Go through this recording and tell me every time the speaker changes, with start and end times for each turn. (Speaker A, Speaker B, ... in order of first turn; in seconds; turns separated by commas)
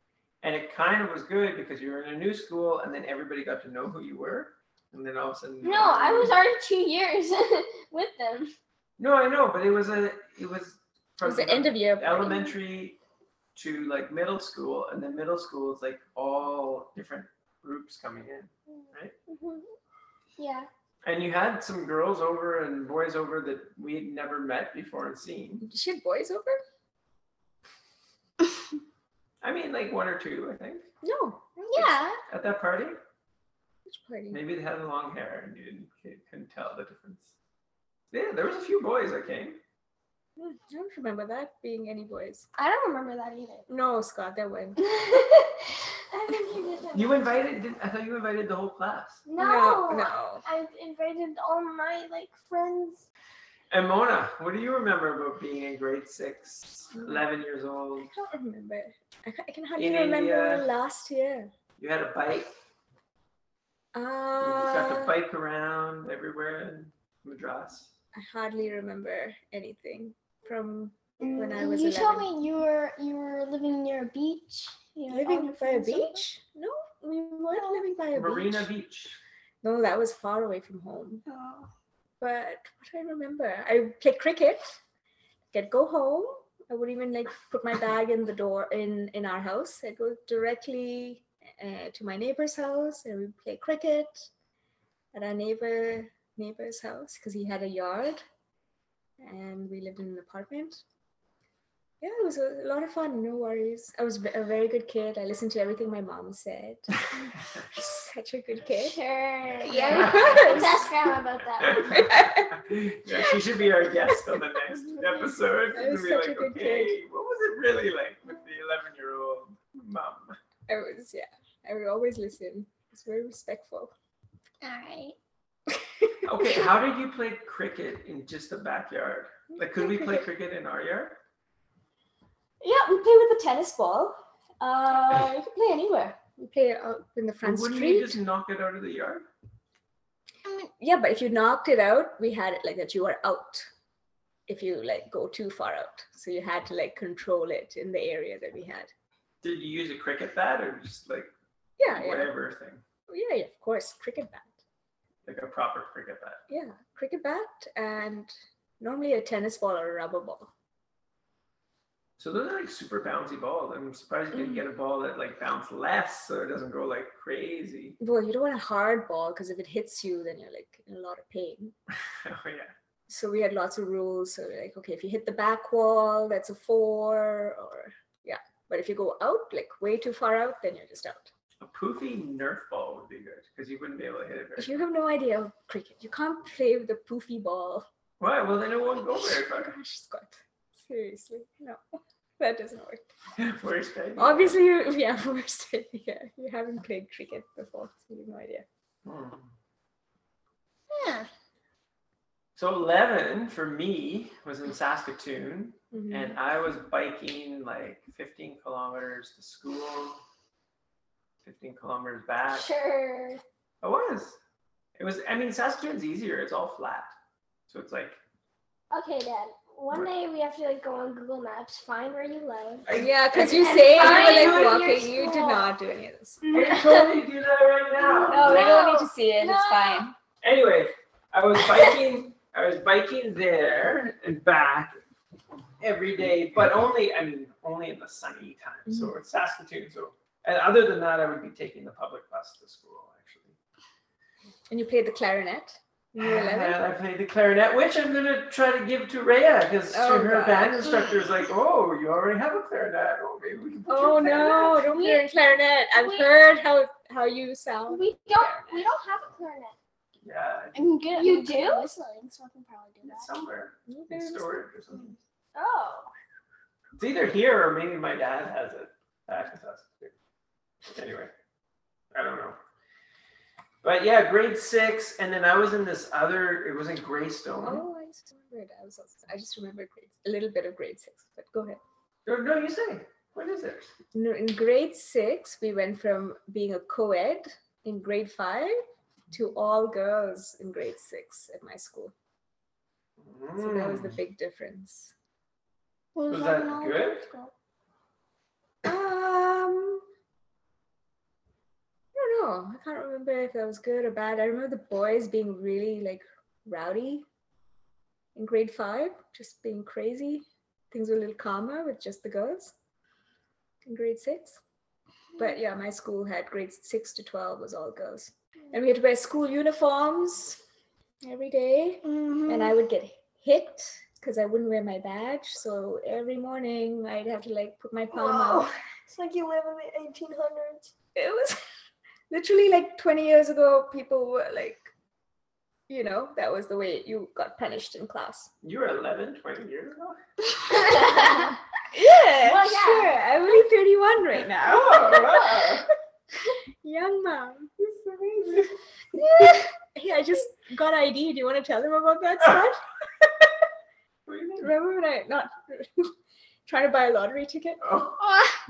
Speaker A: 0.4-6.4, Speaker B: 5.6-8.5, Speaker A: 9.0-13.0, Speaker C: 11.2-12.5, Speaker A: 13.6-19.1, Speaker B: 18.7-19.7, Speaker B: 20.4-20.7, Speaker A: 21.0-25.6, Speaker C: 25.6-26.6, Speaker A: 29.4-30.9, Speaker C: 31.0-31.4, Speaker D: 31.6-32.2, Speaker A: 31.8-33.0, Speaker C: 33.9-34.4, Speaker A: 34.3-37.3, Speaker A: 38.1-39.6, Speaker C: 40.4-42.5, Speaker B: 42.6-43.7, Speaker C: 43.7-44.8, Speaker B: 44.8-47.4, Speaker A: 46.9-49.2, Speaker B: 49.2-53.0, Speaker C: 49.4-50.4, Speaker A: 53.7-58.1, Speaker C: 56.9-57.3, Speaker C: 58.0-61.5, Speaker A: 59.8-60.7, Speaker A: 61.8-62.5, Speaker C: 63.9-65.1, Speaker A: 64.4-67.9, Speaker C: 68.1-72.3, Speaker D: 71.2-76.1, Speaker C: 75.1-78.7, Speaker A: 78.1-79.2, Speaker C: 79.6-81.2, Speaker D: 81.3-81.7, Speaker C: 82.2-84.8, Speaker C: 85.5-94.3, Speaker C: 95.1-98.2, Speaker C: 99.2-100.8, Speaker C: 102.0-107.0, Speaker C: 107.5-109.0, Speaker B: 108.8-112.1, Speaker D: 109.6-110.8, Speaker C: 109.6-110.9, Speaker A: 109.9-110.6, Speaker A: 111.6-120.3, Speaker C: 111.8-112.5, Speaker C: 115.7-117.0, Speaker C: 120.7-123.9, Speaker D: 124.6-125.2, Speaker C: 125.7-126.7, Speaker A: 126.2-131.2, Speaker C: 129.5-130.2, Speaker C: 132.6-138.2, Speaker A: 137.4-139.3, Speaker D: 140.4-140.7, Speaker C: 140.8-143.7, Speaker C: 144.5-148.9, Speaker A: 149.4-151.3, Speaker C: 151.8-152.3, Speaker A: 151.8-152.8, Speaker C: 153.1-154.6, Speaker A: 155.2-156.4, Speaker C: 156.5-160.5, Speaker A: 162.2-168.0, Speaker C: 164.3-164.6, Speaker C: 168.0-171.7, Speaker A: 172.2-172.7, Speaker C: 173.1-181.3, Speaker A: 181.6-184.8, Speaker C: 184.6-187.8, Speaker A: 188.2-189.7, Speaker C: 189.2-193.1, Speaker A: 193.4-194.6, Speaker C: 194.2-198.6, Speaker A: 199.0-199.5, Speaker D: 200.9-201.3, Speaker A: 202.6-210.2, Speaker C: 205.9-206.4, Speaker A: 211.4-212.7, Speaker B: 212.5-213.4, Speaker A: 213.8-214.4, Speaker A: 215.0-217.1, Speaker A: 217.7-218.2, Speaker B: 218.9-225.7, Speaker A: 222.9-224.8, Speaker C: 222.9-226.6, Speaker D: 224.3-224.8, Speaker B: 226.4-227.1, Speaker A: 226.5-228.8, Speaker B: 228.1-230.1, Speaker C: 228.2-230.1, Speaker A: 230.4-234.9, Speaker A: 235.8-243.6, Speaker C: 238.9-239.1, Speaker C: 244.7-246.8, Speaker A: 246.2-254.9, Speaker C: 249.9-251.1, Speaker C: 253.9-258.8, Speaker B: 257.9-259.8, Speaker A: 260.2-260.9, Speaker D: 260.7-263.3, Speaker B: 261.1-261.9, Speaker A: 263.0-265.1, Speaker C: 263.9-264.5, Speaker B: 265.5-266.1, Speaker A: 267.0-270.1, Speaker A: 270.9-271.3, Speaker A: 272.1-272.6, Speaker A: 273.8-277.8, Speaker C: 277.6-281.8, Speaker A: 282.2-283.9, Speaker C: 284.1-288.8, Speaker C: 289.3-292.1, Speaker A: 293.2-294.2, Speaker C: 293.6-295.1, Speaker D: 296.1-297.5, Speaker A: 296.3-297.2, Speaker C: 298.8-300.0, Speaker C: 302.1-307.2, Speaker C: 308.3-312.7, Speaker C: 313.8-314.6, Speaker C: 315.4-320.6, Speaker C: 321.2-328.7, Speaker D: 322.1-322.7, Speaker B: 328.1-330.9, Speaker C: 331.1-331.6, Speaker C: 332.3-334.9, Speaker C: 335.9-338.5, Speaker A: 338.6-340.2, Speaker B: 340.8-341.5, Speaker C: 341.9-345.9, Speaker B: 342.4-343.2, Speaker A: 344.6-345.9, Speaker C: 346.8-353.5, Speaker A: 354.2-354.7, Speaker C: 354.6-356.1, Speaker C: 356.6-357.8, Speaker A: 357.8-358.2, Speaker D: 358.2-358.6